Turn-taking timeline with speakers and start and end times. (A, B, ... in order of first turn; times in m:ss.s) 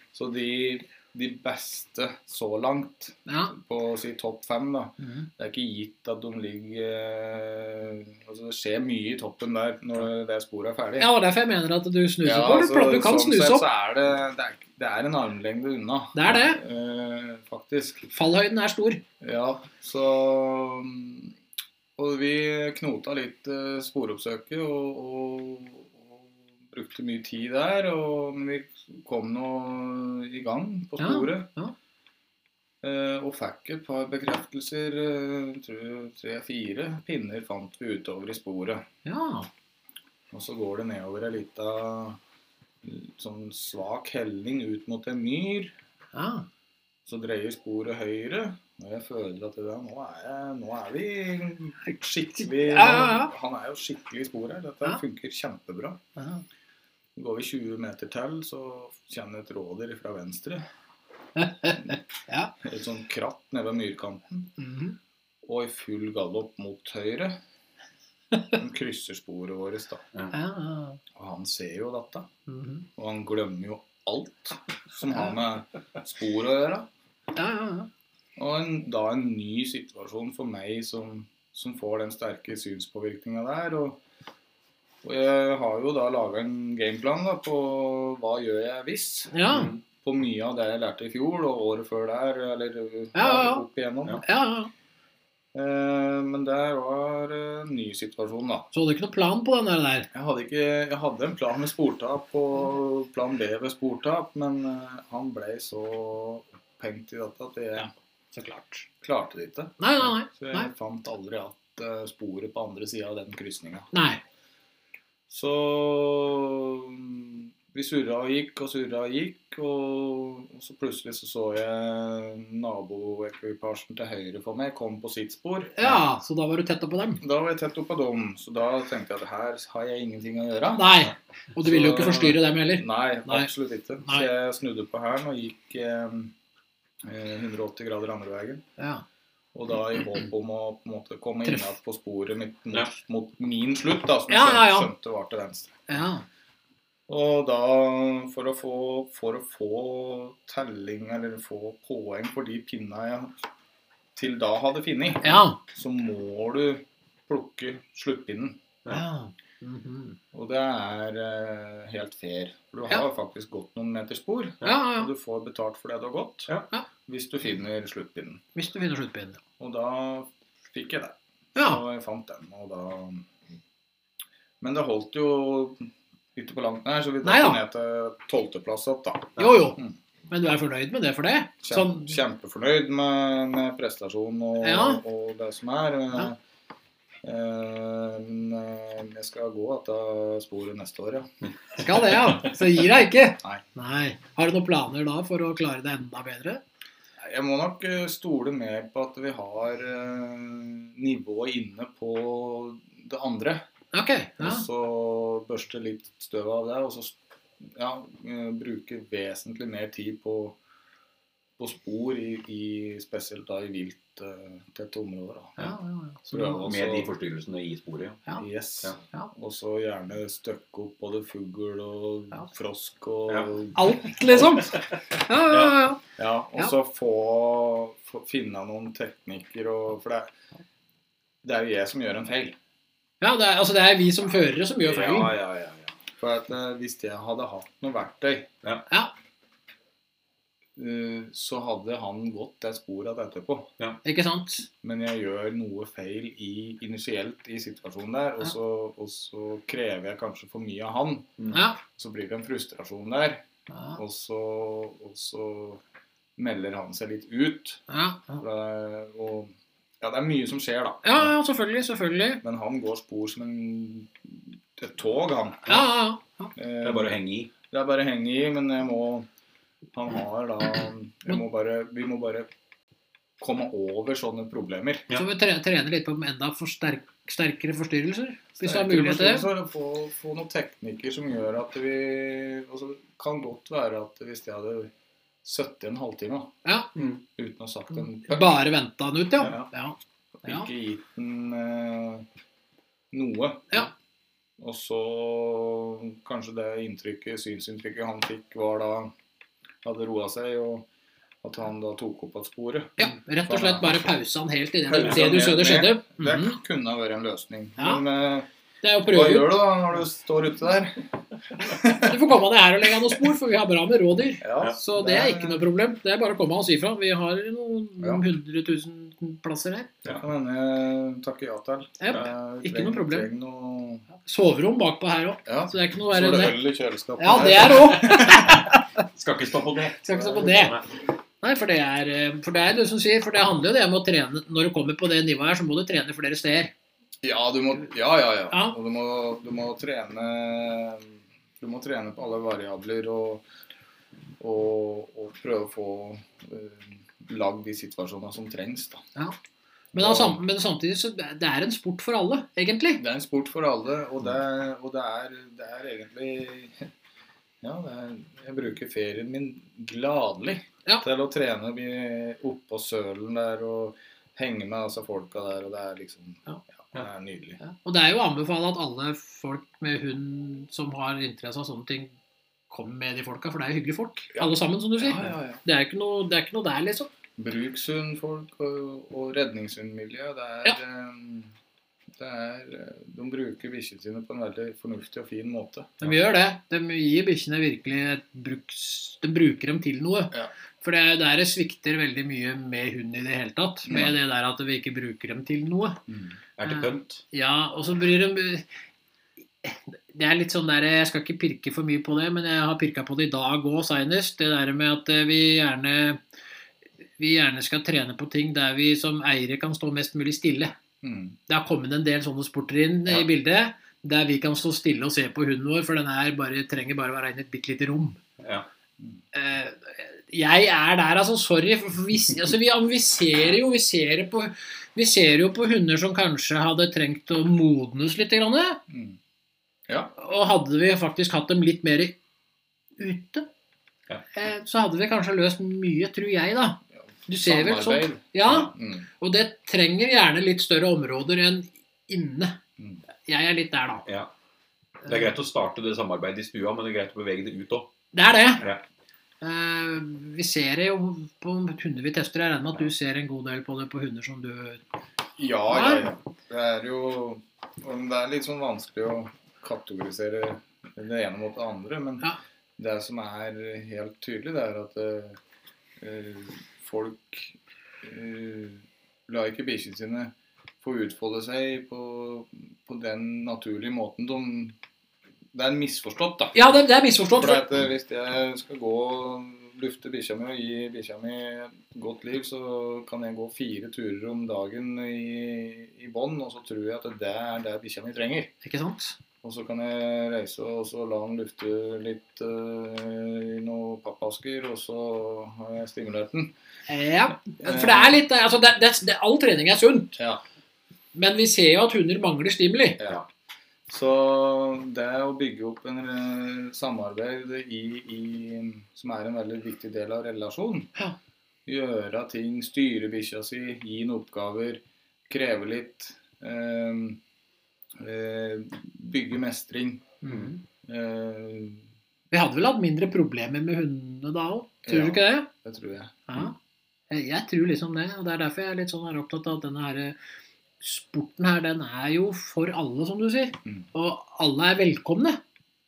0:00.1-0:11.1 A
0:03.3-0:03.5 B
0:05.0-0:05.3 B
0:11.0-0:13.6 B
0:12.2-0:18.1 A
0:16.1-0:16.6 B
0:18.1-0:19.0 B
0:19.2-0:21.3 A
0:22.0-0:31.5 A
0:31.0-0:31.7 B
0:32.8-0:38.8 A
0:39.0-0:39.5 B
0:40.3-0:42.2 A
0:42.8-0:45.7 A
0:46.1-0:46.5 B
0:47.0-0:56.0 A
0:52.4-0:53.3 B
0:56.2-0:56.4 B
0:57.2-1:00.6 A
1:01.4-1:02.5 B
1:02.6-1:04.5 A
1:04.6-1:05.0 B
1:05.4-1:07.4 A
1:08.5-1:10.0 A
1:10.3-1:11.0 B
1:11.1-1:12.3 A
1:12.5-1:12.8 B
1:13.0-1:16.9 A
1:17.3-1:17.9 B
1:18.4-1:24.0 A
1:25.0-1:34.2 A
1:29.3-1:29.7 B
1:29.5-1:29.8 C
1:33.1-1:33.6 B
1:34.2-1:34.7 B
1:35.5-1:38.7 A
1:38.7-1:40.1 B
1:40.1-1:47.9 A
1:48.3-1:48.8 B
1:49.0-1:53.9 A
1:49.8-1:50.7 B
1:53.9-1:54.2 B
1:55.3-2:06.0 A
2:05.8-2:07.2 B
2:07.2-2:11.1 A
2:10.7-2:13.5 B
2:11.6-2:16.3 A
2:17.0-2:18.6 A
2:18.8-2:19.0 B
2:19.5-2:25.8 A
2:21.4-2:21.7 B
2:24.3-2:24.9 B
2:25.9-2:26.2 B
2:27.1-2:33.3 A
2:34.1-2:38.6 A
2:35.2-2:35.6 B
2:38.9-2:40.2 B
2:40.3-2:46.5 A
2:44.6-2:45.1 B
2:47.0-2:48.4 A
2:48.5-2:49.4 B
2:49.6-2:53.2 A
2:51.6-2:51.8 B
2:54.6-3:00.0 A
2:57.2-2:57.6 B
2:59.4-2:59.8 B
3:00.3-3:02.1 B
3:01.6-3:06.4 A
3:04.6-3:05.0 B
3:07.2-3:11.3 A
3:11.8-3:16.6 B
3:17.2-3:23.6 A
3:23.9-3:24.6 B
3:24.4-3:30.6 A
3:31.6-3:35.7 A
3:35.6-3:36.7 B
3:36.3-3:37.1 A
3:36.6-3:38.2 C
3:38.4-3:44.7 A
3:43.7-3:46.0 B
3:45.5-3:45.8 C
3:46.2-3:50.3 A
3:51.4-3:52.6 A
3:53.2-3:55.3 B
3:54.8-3:55.9 C
3:56.2-3:58.5 A
4:00.8-4:03.7 A
4:04.0-4:04.7 B
4:04.8-4:13.4 A
4:11.5-4:11.8 B
4:13.7-4:14.0 B
4:13.9-4:15.8 A
4:16.4-4:17.8 A
4:17.9-4:18.4 B
4:18.4-4:21.3 A
4:21.0-4:22.4 B
4:22.4-4:25.9 A
4:25.7-4:26.5 B
4:26.6-4:27.2 A
4:26.8-4:27.5 C
4:27.7-4:29.3 A
4:29.9-4:32.5 A
4:33.4-4:35.0 A
4:35.1-4:39.5 B
4:38.6-4:44.9 A
4:45.4-4:46.5 A
4:46.9-4:47.2 C
4:47.4-4:48.6 A
4:48.2-4:50.7 B
4:49.4-4:49.7 A
4:50.4-4:52.2 A
4:53.1-4:53.9 A
4:54.6-4:59.1 A
4:59.8-5:00.9 A
5:01.4-5:04.0 A
5:03.0-5:06.6 B
5:04.8-5:08.5 A
5:07.8-5:08.0 B
5:08.8-5:09.6 B
5:09.1-5:12.2 A
5:11.6-5:19.9 B
5:14.4-5:15.6 A
5:20.0-5:24.0 A
5:22.0-5:23.3 B
5:24.2-5:26.6 B
5:25.4-5:28.6 A
5:27.2-5:28.8 B
5:28.1-5:30.8 C
5:30.0-5:30.8 B
5:30.1-5:30.7 A
5:31.4-5:36.7 B
5:37.2-5:43.4 A
5:38.5-5:38.8 B
5:44.4-5:49.0 A
5:49.9-5:50.4 A
5:49.9-5:53.0 B
5:53.0-5:56.9 A
5:57.6-6:07.6 A
6:07.6-6:12.1 B
6:12.7-6:17.1 B
6:14.3-6:15.6 A
6:17.4-6:21.5 A
6:22.2-6:26.0 A
6:26.0-6:36.0 B
6:33.9-6:34.1 A
6:36.1-6:36.4 A
6:36.6-6:37.2 C
6:36.7-6:38.6 B
6:39.6-6:46.2 B
6:47.2-6:50.7 B
6:51.0-6:51.4 A
6:51.5-6:58.2 B
6:58.4-6:58.7 C
6:59.3-7:08.8 B
7:08.9-7:09.2 A
7:10.2-7:12.2 B
7:13.0-7:13.5 B
7:14.3-7:22.6 B
7:17.3-7:19.1 A
7:23.2-7:24.0 B
7:25.0-7:27.9 C
7:28.1-7:28.6 B
7:29.4-7:34.8 B
7:35.4-7:42.2 A
7:35.7-7:36.1 B
7:42.8-7:45.4 A
7:46.0-7:54.8 A
7:55.5-7:56.6 A
7:56.5-7:57.7 B
7:57.3-8:08.5 A
8:08.6-8:09.2 B
8:09.4-8:16.5 A
8:16.9-8:20.2 B
8:17.6-8:18.2 A
8:21.1-8:23.0 B
8:23.9-8:30.9 A
8:31.6-8:37.2 A
8:38.0-8:40.1 A
8:40.2-8:40.6 B
8:40.8-8:41.8 A
8:42.3-8:45.5 B
8:44.8-8:46.2 A
8:46.3-8:46.6 B
8:47.1-8:50.2 B
8:50.8-8:55.4 B